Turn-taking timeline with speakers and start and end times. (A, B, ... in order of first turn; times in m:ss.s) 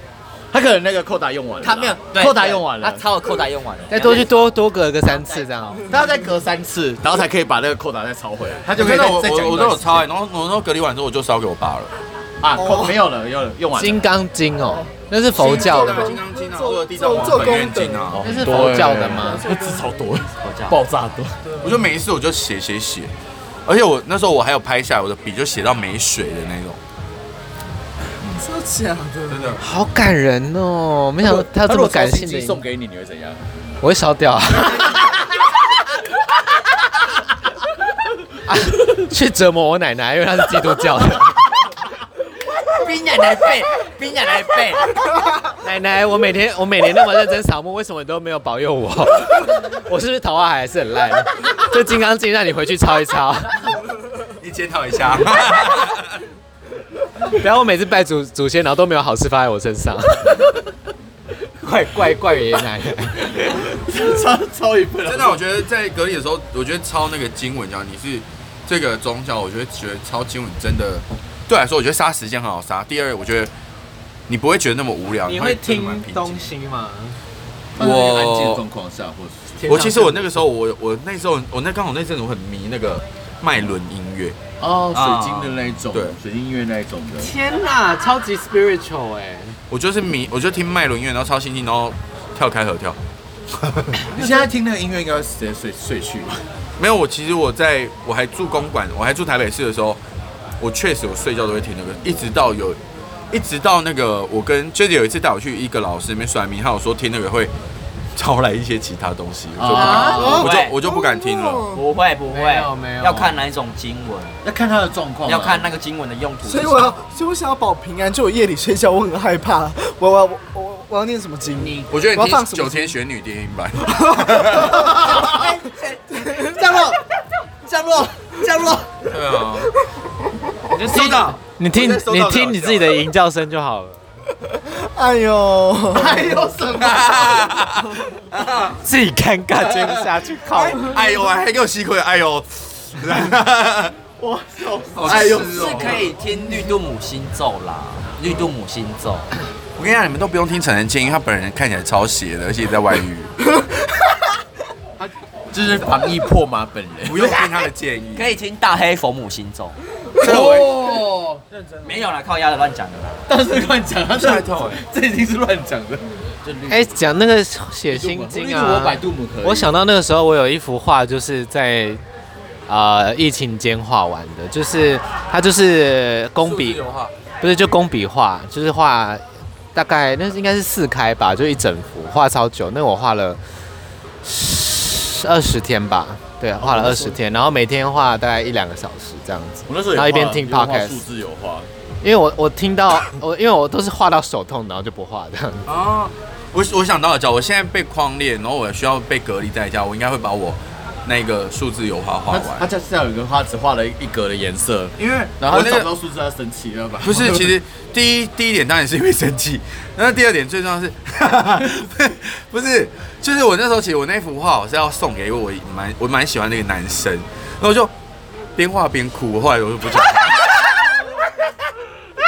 0:00.5-0:03.0 A
0:01.6-0:04.4 B
0:03.9-0:05.9 C
0:05.1-0:05.8 B
0:05.9-0:10.0 A
0:08.7-0:11.9 D
0:12.4-0:14.0 A
0:13.8-0:16.1 C
0:15.3-0:18.3 D
0:15.4-0:18.2 E
0:18.1-0:21.4 A
0:18.2-0:19.4 C
0:19.5-0:19.8 E
0:20.4-0:20.8 B
0:21.6-0:23.1 D
0:23.6-0:26.8 D
0:28.2-0:29.6 E
0:29.3-0:29.6 D
0:29.6-0:32.6 C
0:31.2-0:33.4 A
0:33.8-0:35.0 C
0:38.4-0:41.5 C
0:42.5-0:44.9 B
0:45.6-0:53.7 C
0:54.4-0:56.2 D
0:57.3-1:00.5 C
1:01.6-1:03.5 C
1:03.3-1:05.4 A
1:05.0-1:13.5 D
1:14.3-1:16.5 D
1:15.2-1:17.2 C
1:17.8-1:19.6 A
1:17.8-1:18.6 D
1:19.6-1:20.3 C
1:19.6-1:24.4 D
1:24.6-1:27.3 A
1:25.0-1:25.4 D
1:25.9-1:26.2 D
1:27.2-1:29.6 C
1:29.7-1:33.0 D
1:33.5-1:34.1 D
1:34.0-1:36.4 A
1:36.8-1:40.0 D
1:40.6-1:42.8 D
1:43.3-1:47.5 D
1:48.2-1:51.6 D
1:49.6-1:50.4 C
1:49.6-1:50.8 B
1:50.0-1:51.8 E
1:51.7-1:54.4 B
1:52.3-1:53.3 C
1:54.4-1:55.7 A
1:55.2-1:57.0 B
1:56.4-2:03.0 E
2:01.8-2:04.9 D
2:03.9-2:05.6 E
2:04.7-2:05.4 A
2:05.0-2:06.0 B
2:06.1-2:06.6 E
2:06.4-2:07.0 A
2:07.6-2:09.0 A
2:09.1-2:09.7 D
2:10.7-2:14.0 C
2:10.8-2:13.0 D
2:14.6-2:16.5 E
2:15.9-2:17.4 A
2:16.8-2:18.8 D
2:18.8-2:21.0 C
2:20.5-2:24.0 D
2:24.2-2:26.0 A
2:24.9-2:26.1 D
2:25.0-2:29.3 B
2:29.8-2:33.3 D
2:35.0-2:37.3 A
2:37.0-2:38.4 D
2:38.1-2:39.8 B
2:40.2-2:41.4 A
2:40.2-2:40.8 D
2:41.8-2:43.2 B
2:43.3-2:47.0 A
2:44.1-2:44.8 D
2:46.7-2:52.0 C
2:47.9-2:49.7 A
2:52.7-2:56.8 C
2:56.4-2:57.1 D
2:57.4-2:59.2 C
2:59.7-3:03.4 C
3:04.2-3:11.0 C
3:06.6-3:07.1 A
3:09.7-3:11.7 A
3:12.0-3:15.7 C
3:15.6-3:22.7 D
3:22.3-3:27.5 A
3:25.0-3:25.9 D
3:27.0-3:37.9 D
3:38.6-3:41.0 D